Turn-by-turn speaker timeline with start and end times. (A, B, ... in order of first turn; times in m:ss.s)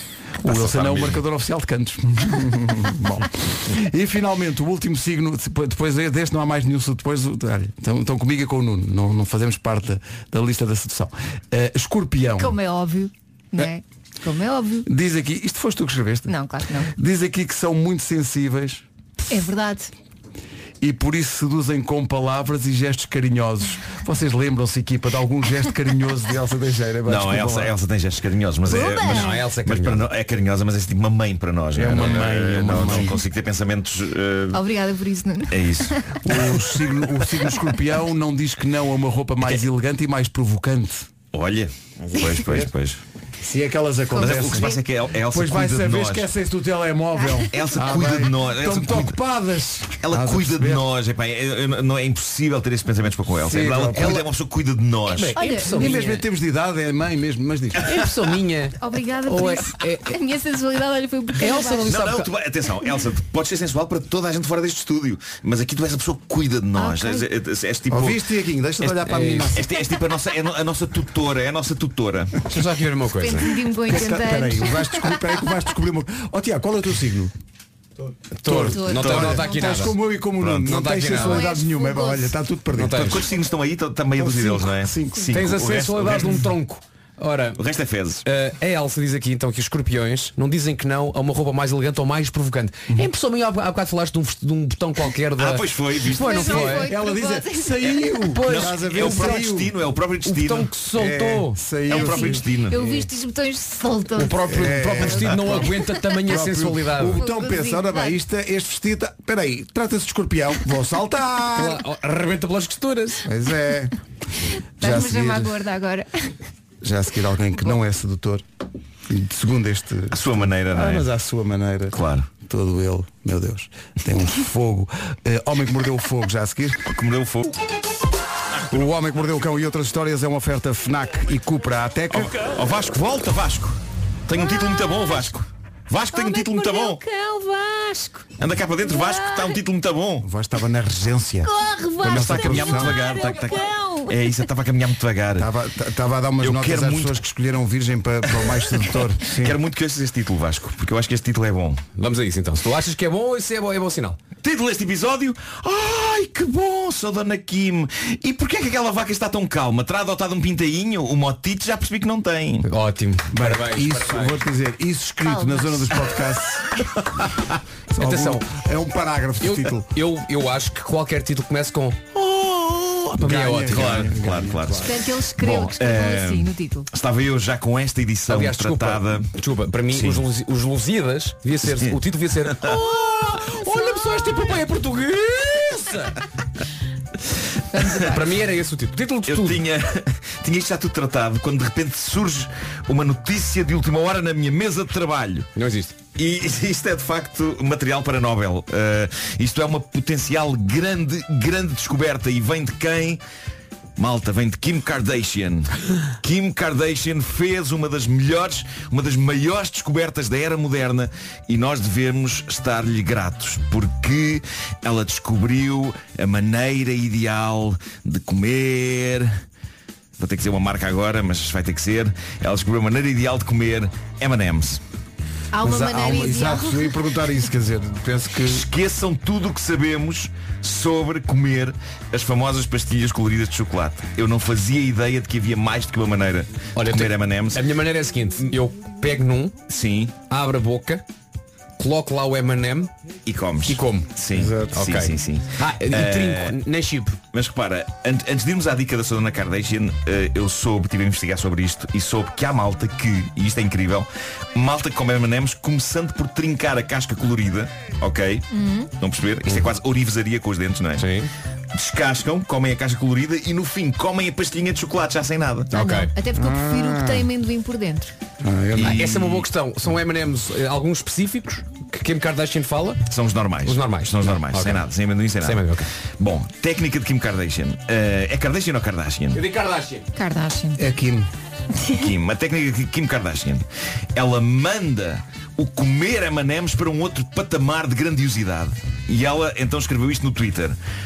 0:00.4-0:01.2 A
0:00.4-0:12.6 B
0:12.4-0:14.9 C
0:14.9-0:16.3 B
0:16.3-0:16.9 C
0:16.9-0:18.8 B
0:19.3-0:19.9 C
0:20.8-0:27.7 B
0:27.1-0:34.6 A
0:28.6-0:29.4 C
0:28.9-0:30.1 D
0:31.7-0:33.2 B
0:34.5-0:36.6 C
0:35.5-0:36.2 A
0:36.2-0:41.1 B
0:41.3-0:43.0 A
0:42.3-0:42.7 B
0:43.4-0:44.7 B
0:44.1-0:44.8 C
0:44.2-0:46.3 A
0:45.3-0:50.9 B
0:47.5-0:49.2 A
0:50.0-0:55.4 A
0:53.4-0:54.3 D
0:55.1-0:56.2 D
0:55.4-0:56.0 C
0:55.6-0:57.9 B
0:57.8-1:00.1 D
0:58.8-1:01.9 C
1:01.4-1:02.3 D
1:01.8-1:08.2 A
1:06.8-1:07.2 C
1:07.9-1:09.7 B
1:09.0-1:09.5 D
1:09.6-1:12.4 A
1:12.5-1:13.5 D
1:13.2-1:15.2 C
1:13.9-1:17.3 B
1:18.4-1:20.0 D
1:18.4-1:23.2 B
1:18.7-1:19.9 C
1:19.0-1:19.4 A
1:20.4-1:20.7 A
1:20.6-1:21.5 D
1:21.2-1:22.4 C
1:22.8-1:23.2 D
1:22.9-1:26.5 A
1:24.2-1:25.3 B
1:25.3-1:27.6 D
1:27.6-1:28.2 A
1:28.3-1:36.9 D
1:35.4-1:36.7 A
1:36.2-1:38.2 C
1:36.7-1:39.7 B
1:38.4-1:39.4 D
1:38.5-1:40.7 A
1:40.2-1:41.6 D
1:41.0-1:42.5 B
1:41.9-1:42.8 A
1:41.9-1:45.8 C
1:44.2-1:47.2 D
1:44.5-1:51.8 B
1:47.1-1:48.2 C
1:51.6-1:53.2 D
1:53.2-1:54.0 B
1:54.8-1:55.6 B
1:54.8-1:56.3 C
1:56.8-1:58.4 B
1:59.1-2:06.9 B
2:00.1-2:01.1 A
2:01.9-2:02.3 A
2:06.9-2:07.6 A
2:08.7-2:12.3 B
2:12.2-2:17.0 A
2:16.1-2:19.6 C
2:18.4-2:20.3 A
2:20.2-2:23.0 B
2:21.4-2:24.2 C
2:22.1-2:25.5 A
2:25.4-2:29.6 B
2:26.4-2:27.2 A
2:29.3-2:31.8 A
2:32.0-2:34.2 D
2:34.4-2:42.7 A
2:42.7-2:44.4 D
2:43.3-2:46.7 B
2:45.2-2:45.9 C
2:47.9-2:49.9 B
2:48.0-2:48.4 D
2:49.4-2:52.0 D
2:53.2-2:54.9 B
2:53.2-2:54.2 D
2:53.6-2:59.3 A
2:54.8-2:56.9 C
2:58.3-3:06.2 D
2:59.9-3:00.2 A
3:01.7-3:02.0 A
3:07.7-3:08.1 C
3:07.9-3:09.6 D
3:09.3-3:15.5 A
3:15.6-3:16.0 D
3:16.2-3:23.2 A
3:24.0-3:39.3 A
3:40.2-3:44.8 A
3:45.5-3:46.9 C
3:45.6-3:48.7 B
3:48.5-3:57.6 A
3:56.8-3:59.6 D
3:59.7-4:00.2 A
4:00.3-4:01.0 D
4:01.8-4:02.9 D
4:03.3-4:06.6 A
4:03.7-4:04.1 D
4:04.4-4:04.8 B
4:04.7-4:07.2 D
4:07.3-4:18.5 A
4:18.5-4:18.9 C
4:19.0-4:21.1 A
4:21.0-4:21.3 D
4:21.7-4:25.7 A
4:25.7-4:26.1 D
4:25.7-4:28.1 C
4:26.4-4:27.3 B
4:28.4-4:29.3 B
4:28.8-4:29.2 A
4:28.8-4:33.0 D
4:33.1-4:39.4 A
4:33.6-4:34.9 D
4:35.4-4:35.9 D
4:39.3-4:40.1 D
4:40.2-4:40.8 C
4:40.8-4:41.3 B
4:41.9-4:43.6 A
4:44.2-4:50.8 A